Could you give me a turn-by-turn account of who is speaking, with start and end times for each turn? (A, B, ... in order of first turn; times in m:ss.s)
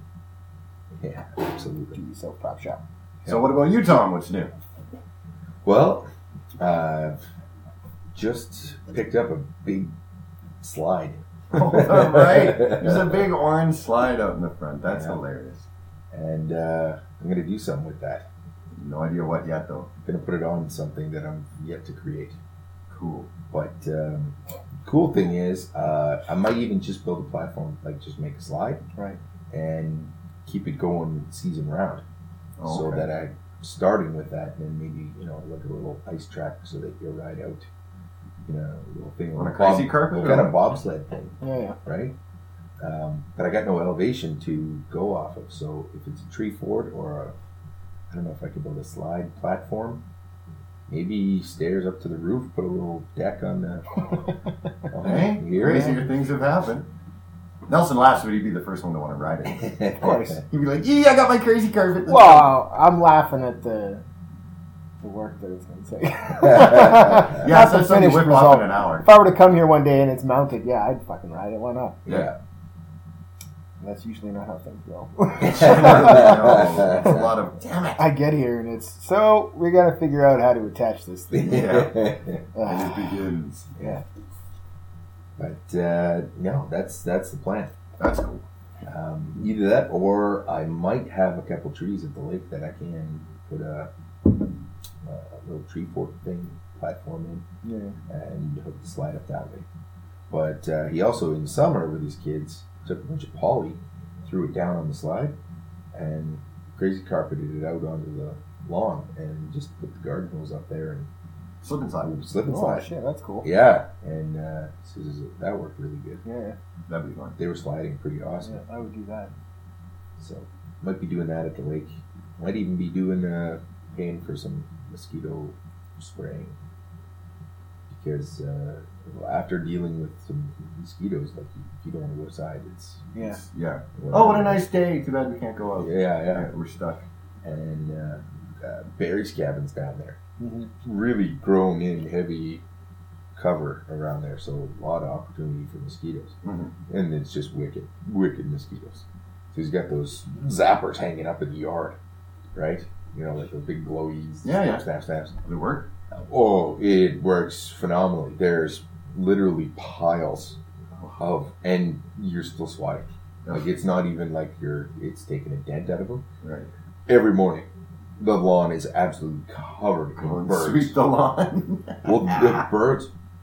0:01.0-0:02.0 A
0:01.9-0:02.8 B
0:03.2-0:03.5 A
0:03.2-0:04.5 C
0:05.6-0:06.1 A
0:06.6-0:07.2 A
0:08.1-0:09.9 A
0:10.6-0:13.3 A
0:11.5-0:15.7 C
0:14.8-0:15.2 A
0:16.1-0:18.3 A
0:18.8-0:19.9 C
0:20.0-0:22.4 A
0:22.9-0:23.3 C
0:23.5-0:28.8 A
0:29.5-0:32.0 A
0:32.6-0:33.1 C
0:32.6-0:37.7 A
0:38.4-0:42.1 A
0:39.4-0:40.6 C
0:41.4-0:41.8 B
0:42.8-0:47.3 A
0:48.1-0:50.0 A
0:50.9-0:54.0 A
0:54.9-0:56.0 A
0:55.0-0:56.9 C
0:57.7-0:59.8 C
0:59.4-1:00.4 A
1:00.0-1:00.4 B
1:00.5-1:02.5 C
1:02.0-1:04.0 B
1:05.0-1:12.0 B
1:06.4-1:07.4 A
1:07.3-1:09.1 C
1:12.0-1:12.4 A
1:13.8-1:17.2 B
1:15.4-1:17.3 A
1:15.5-1:18.0 C
1:18.0-1:21.7 B
1:21.3-1:22.4 A
1:21.4-1:21.9 C
1:22.5-1:23.1 B
1:22.6-1:23.7 C
1:23.8-1:24.0 B
1:25.4-1:27.7 A
1:28.0-1:28.4 C
1:28.8-1:33.9 A
1:35.0-1:37.4 A
1:37.6-1:38.0 B
1:38.1-1:39.7 A
1:40.3-1:45.3 A
1:45.9-1:51.1 A
1:51.6-1:52.2 C
1:52.0-1:52.9 A
1:52.4-1:53.5 B
1:53.4-1:56.2 A
1:56.2-1:56.6 B
1:56.9-1:57.4 C
1:57.4-1:58.6 A
1:58.4-1:59.3 B
2:00.2-2:06.6 A
2:07.9-2:13.0 A
2:13.1-2:13.4 B
2:13.2-2:17.0 C
2:14.0-2:14.6 A
2:15.8-2:16.5 A
2:17.4-2:20.2 A
2:20.4-2:20.7 B
2:20.8-2:22.6 A
2:23.3-2:26.4 A
2:26.4-2:26.7 C
2:26.9-2:32.0 A
2:32.5-2:35.3 A
2:34.4-2:34.8 C
2:35.4-2:35.9 C
2:36.1-2:40.6 A
2:41.2-2:46.2 A
2:46.4-2:46.7 C
2:47.1-2:50.9 A
2:50.2-2:52.6 C
2:52.0-2:53.1 A